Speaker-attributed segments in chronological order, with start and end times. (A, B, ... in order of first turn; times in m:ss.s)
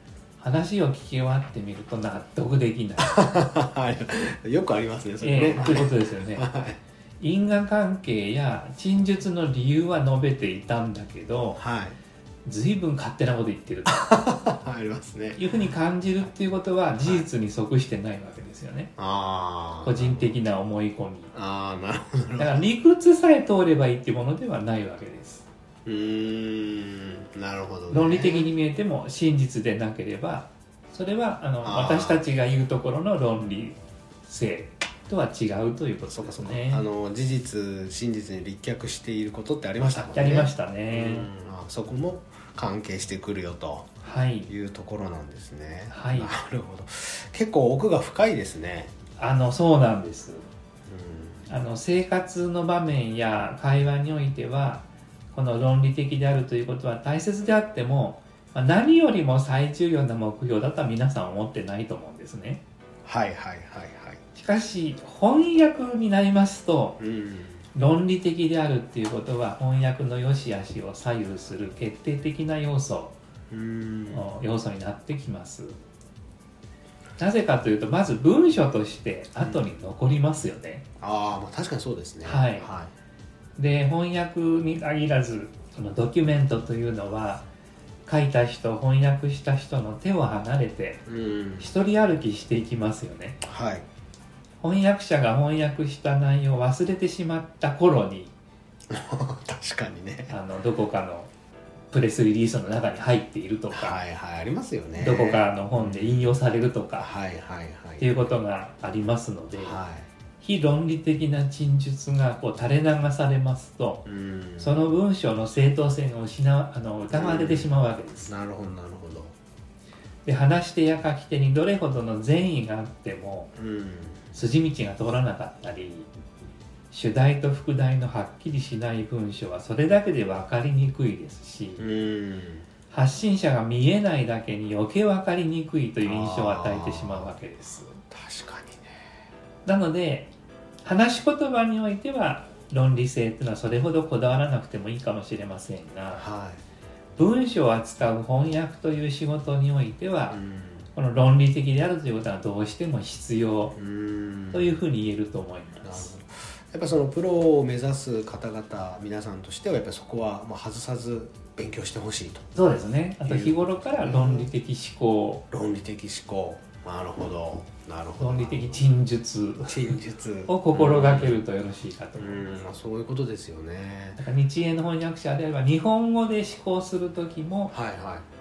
0:00.4-0:03.2 A
0:03.0-0:06.8 B
0:05.2-0:06.5 A
0:07.2-0:11.6 A
0:11.6-0:12.0 B
0:12.4-0:14.0 A
0:13.9-0:15.4 B
0:15.3-0:18.9 A
0:17.0-0:17.2 B
0:19.0-0:20.4 B
0:19.8-0:21.3 A
0:21.3-0:22.7 B
0:22.4-0:25.5 A
0:25.8-0:28.5 B
0:27.9-0:36.8 A
0:31.6-0:32.2 B
0:36.0-0:43.9 B
0:39.8-0:41.3 A
0:44.0-0:44.5 A
0:44.5-0:48.9 B
0:45.9-0:46.3 A
0:49.2-0:50.5 A
0:50.9-0:51.5 B
0:51.5-1:02.6 A
1:03.0-1:04.2 B
1:04.3-1:07.0 A
1:07.0-1:07.6 B
1:07.7-1:13.2 A
1:13.5-1:14.3 B
1:14.1-1:15.8 A
1:17.2-1:20.8 A
1:19.4-1:19.7 B
1:21.0-1:22.9 B
1:22.2-1:22.7 A
1:23.6-1:27.4 A
1:28.0-1:31.0 A
1:31.0-1:31.7 B
1:31.6-1:33.4 A
1:33.4-1:33.8 B
1:34.6-1:38.3 A
1:38.9-1:40.4 B
1:40.3-1:41.3 A
1:41.9-1:44.0 A
1:43.7-1:46.4 B
1:45.0-1:47.1 A
1:47.0-1:48.3 B
1:48.0-1:49.8 A
1:49.5-1:50.1 B
1:50.4-1:58.3 A
1:54.0-1:54.9 B
1:57.1-1:57.7 B
1:58.2-1:59.3 B
2:00.2-2:03.5 A
2:03.6-2:04.3 B
2:04.3-2:06.1 A
2:06.9-2:11.8 A
2:11.8-2:12.6 B
2:12.9-2:18.0 A
2:16.0-2:17.4 B
2:18.0-2:18.9 B
2:19.6-2:20.3 A
2:20.8-2:26.2 A
2:26.1-2:26.6 B
2:27.2-2:30.4 A
2:30.3-2:30.9 B
2:30.9-2:33.8 A
2:33.7-2:34.8 B
2:34.5-2:36.1 A
2:35.8-2:42.5 B
2:42.5-2:45.4 A
2:43.2-2:44.5 B
2:45.5-2:48.8 B
2:48.2-2:49.9 A
2:49.6-2:51.4 B
2:50.5-2:52.5 A
2:52.2-2:54.2 B
2:54.2-2:57.7 A
2:57.7-2:58.2 B